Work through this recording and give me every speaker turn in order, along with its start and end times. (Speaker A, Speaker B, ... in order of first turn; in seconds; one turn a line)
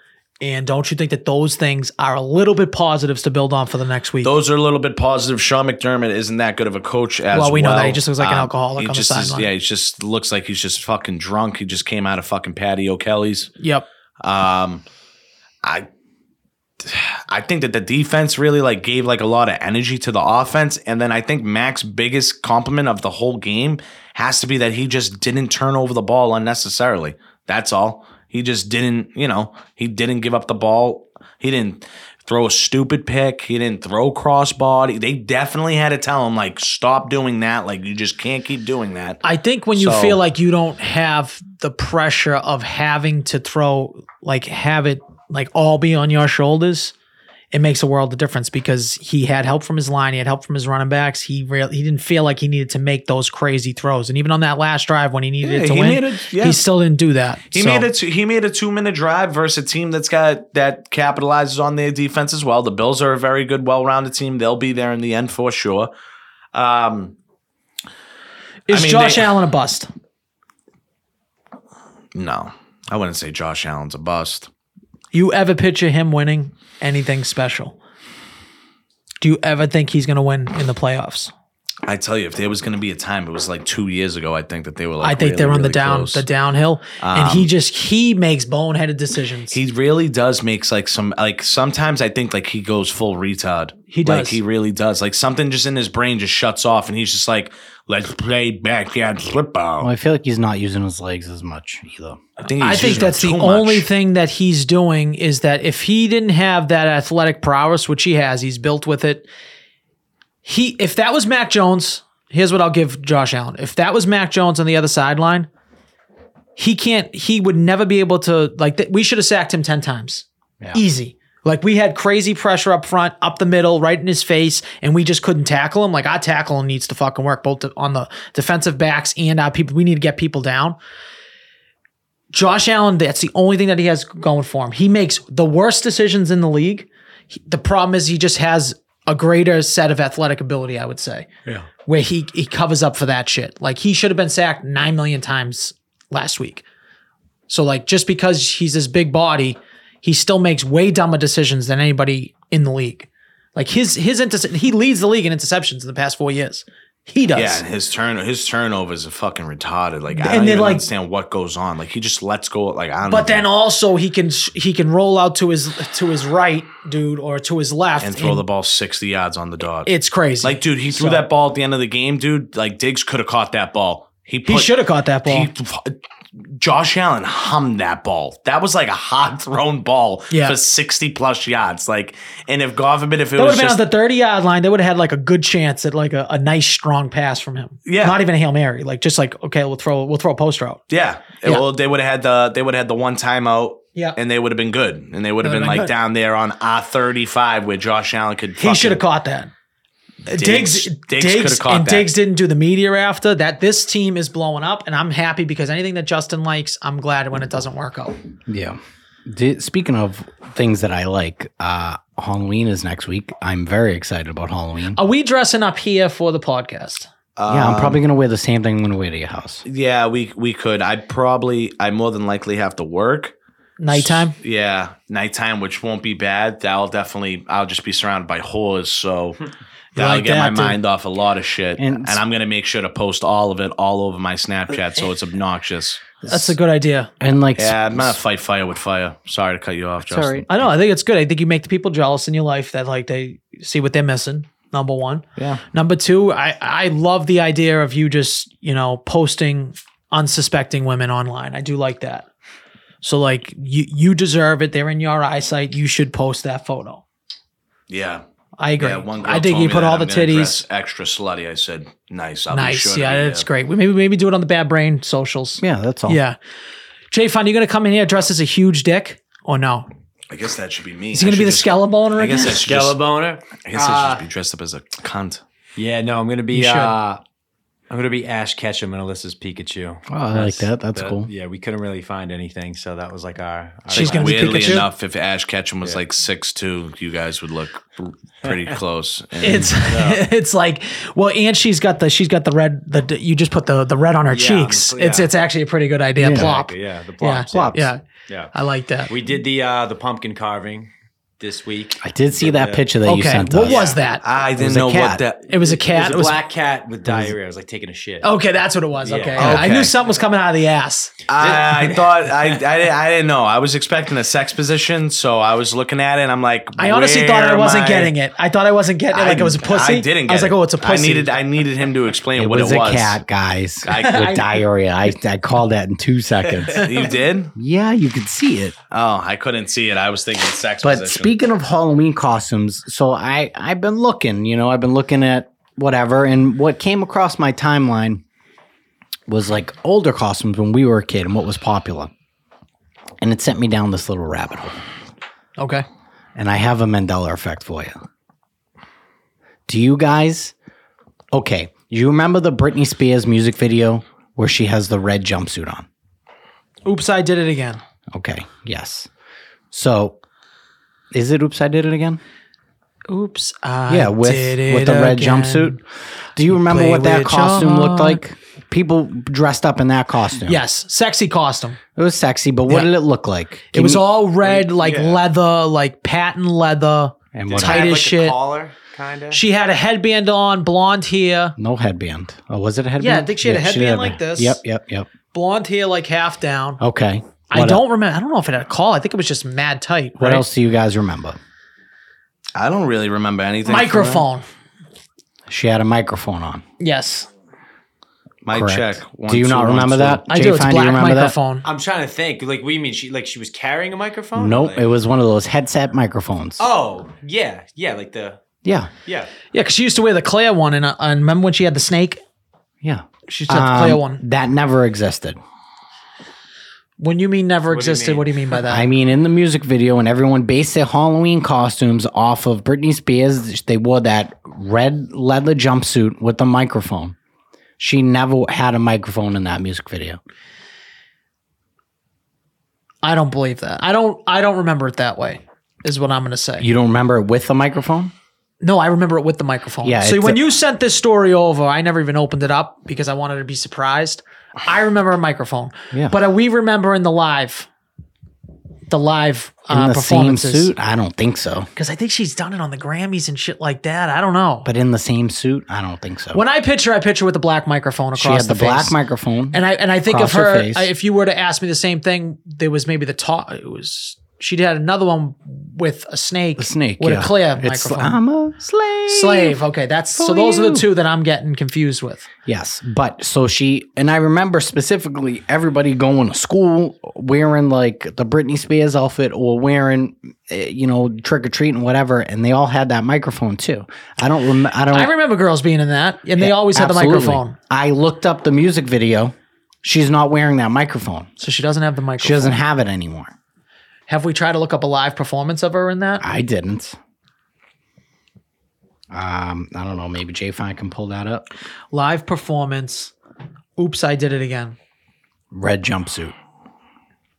Speaker A: 0.4-4.3
Speaker B: 4.2-13.5
Speaker A: 7.3-9.5
Speaker A: 13.6-13.9
Speaker B: 14.2-14.8
Speaker B: 15.6-15.9
Speaker B: 16.8-39.2
Speaker A: 39.2-46.9
Speaker B: 39.8-40.2
Speaker A: 47.5-57.9
Speaker B: 55.4-56.6
Speaker B: 57.5-65.9
Speaker B: 66.5-67.2
Speaker A: 68.7-69.9
Speaker B: 68.7-69.3
Speaker B: 72.1-74.5
Speaker A: 75.1-77.8
Speaker A: 79.2-81.3
Speaker B: 81.8-86.2
Speaker A: 85.0-89.6
Speaker B: 87.0-87.5
Speaker B: 89.5-99.9
Speaker A: 93.9-94.4
Speaker C: 99.8-102.2
Speaker B: 102.4-103.9
Speaker A: 102.5-109.3
Speaker A: 110.5-115.5
Speaker A: 116.6-130.8
Speaker A: 132.3-141.3
Speaker A: 141.9-146.6
Speaker A: 147.5-157.6
Speaker B: 157.3-163.5
Speaker A: 160.1-160.9
Speaker A: 163.1-168.4
Speaker B: 168.0-169.9
Speaker A: 169.9-171.2
Speaker B: 170.4-174.7
Speaker A: 174.4-175.5
Speaker B: 175.3-183.8
Speaker A: 180.3-180.6
Speaker A: 183.4-190.8
Speaker B: 187.9-188.2
Speaker B: 190.9-199.0
Speaker A: 195.4-195.9
Speaker A: 198.6-199.5
Speaker A: 200.3-208.2
Speaker B: 200.3-202.1
Speaker C: 208.5-215.0
Speaker A: 215.0-217.1
Speaker B: 217.4-218.0
Speaker C: 217.5-219.6
Speaker B: 219.7-223.3
Speaker A: 223.8-224.3
Speaker B: 223.9-229.4
Speaker A: 229.9-230.8
Speaker B: 230.0-236.0
Speaker C: 231.8-232.2
Speaker C: 236.2-236.5
Speaker A: 236.3-237.1
Speaker C: 237.2-238.2
Speaker B: 237.6-240.5
Speaker C: 240.0-240.5
Speaker A: 240.5-252.3
Speaker B: 245.4-245.6
Speaker A: 253.0-257.0
Speaker B: 257.9-258.2
Speaker A: 258.6-260.6
Speaker B: 258.8-263.5
Speaker A: 262.5-266.4
Speaker C: 265.6-266.2
Speaker A: 267.1-269.9
Speaker B: 270.3-273.0
Speaker A: 271.1-272.6
Speaker D: 272.4-274.2
Speaker B: 273.6-275.4
Speaker D: 275.8-277.2
Speaker A: 276.5-276.9
Speaker D: 277.9-284.8
Speaker C: 280.1-281.3
Speaker A: 283.9-284.9
Speaker B: 284.0-289.8
Speaker A: 289.4-298.0
Speaker D: 289.8-290.2
Speaker D: 294.3-295.3
Speaker C: 296.2-296.6
Speaker D: 296.2-297.7
Speaker C: 297.5-297.9
Speaker A: 298.5-299.1
Speaker D: 299.1-302.9
Speaker C: 302.0-303.9
Speaker A: 303.0-304.2
Speaker D: 303.6-304.0
Speaker B: 304.2-305.5
Speaker C: 304.6-305.2
Speaker A: 305.5-306.4
Speaker D: 305.5-308.3
Speaker C: 307.1-307.4
Speaker A: 308.2-311.2
Speaker D: 309.0-309.6
Speaker B: 309.4-310.0
Speaker B: 311.3-318.1
Speaker D: 311.4-312.6
Speaker A: 316.8-321.4
Speaker B: 319.1-323.2
Speaker C: 322.4-326.8
Speaker B: 323.9-324.3
Speaker A: 323.9-324.6
Speaker B: 326.7-327.5
Speaker C: 327.6-328.8
Speaker B: 328.9-331.3
Speaker C: 330.8-338.2
Speaker C: 339.3-342.1
Speaker C: 343.2-344.8
Speaker A: 345.6-345.9
Speaker C: 346.4-348.0
Speaker C: 349.7-350.5
Speaker C: 351.3-355.9
Speaker A: 356.9-357.8
Speaker C: 358.1-359.1
Speaker C: 359.7-360.2
Speaker C: 361.1-362.2
Speaker A: 363.1-365.8
Speaker C: 363.9-365.8
Speaker C: 366.4-370.6
Speaker A: 366.5-368.2
Speaker A: 370.5-371.8
Speaker C: 372.0-374.0
Speaker A: 373.7-378.4
Speaker D: 374.4-375.2
Speaker C: 377.3-377.9
Speaker D: 377.5-379.4
Speaker A: 379.3-381.6
Speaker C: 381.6-385.1
Speaker A: 383.0-384.6
Speaker A: 385.3-386.8
Speaker C: 386.8-387.8
Speaker A: 387.5-390.5
Speaker C: 390.2-391.4
Speaker B: 392.6-394.3
Speaker A: 393.7-394.4
Speaker C: 395.5-396.6
Speaker A: 396.8-397.3
Speaker B: 398.4-400.2
Speaker C: 398.5-401.3
Speaker A: 400.3-401.6
Speaker D: 401.6-404.9
Speaker C: 404.4-406.6
Speaker D: 406.6-408.4
Speaker C: 408.6-408.9
Speaker D: 409.1-409.3
Speaker A: 409.5-412.2
Speaker C: 412.8-415.4
Speaker A: 413.3-414.2
Speaker A: 417.0-418.9
Speaker D: 417.7-418.4
Speaker C: 418.7-427.2
Speaker C: 427.8-430.2
Speaker A: 433.0-436.7
Speaker C: 436.6-438.1
Speaker A: 438.6-447.7
Speaker C: 439.8-440.4
Speaker A: 448.9-450.7
Speaker C: 449.7-451.7
Speaker A: 451.8-454.7
Speaker C: 454.6-456.4
Speaker A: 456.3-458.9
Speaker C: 458.1-460.9
Speaker A: 459.5-468.2
Speaker C: 466.6-469.6
Speaker A: 469.1-472.3
Speaker C: 470.1-470.9
Speaker C: 472.5-485.1
Speaker A: 484.9-487.6
Speaker C: 486.4-491.3
Speaker A: 491.4-492.6
Speaker C: 492.2-493.3
Speaker A: 494.1-496.2
Speaker C: 496.2-497.0
Speaker C: 499.1-501.5
Speaker A: 501.9-503.1
Speaker A: 503.8-504.8
Speaker C: 505.5-506.3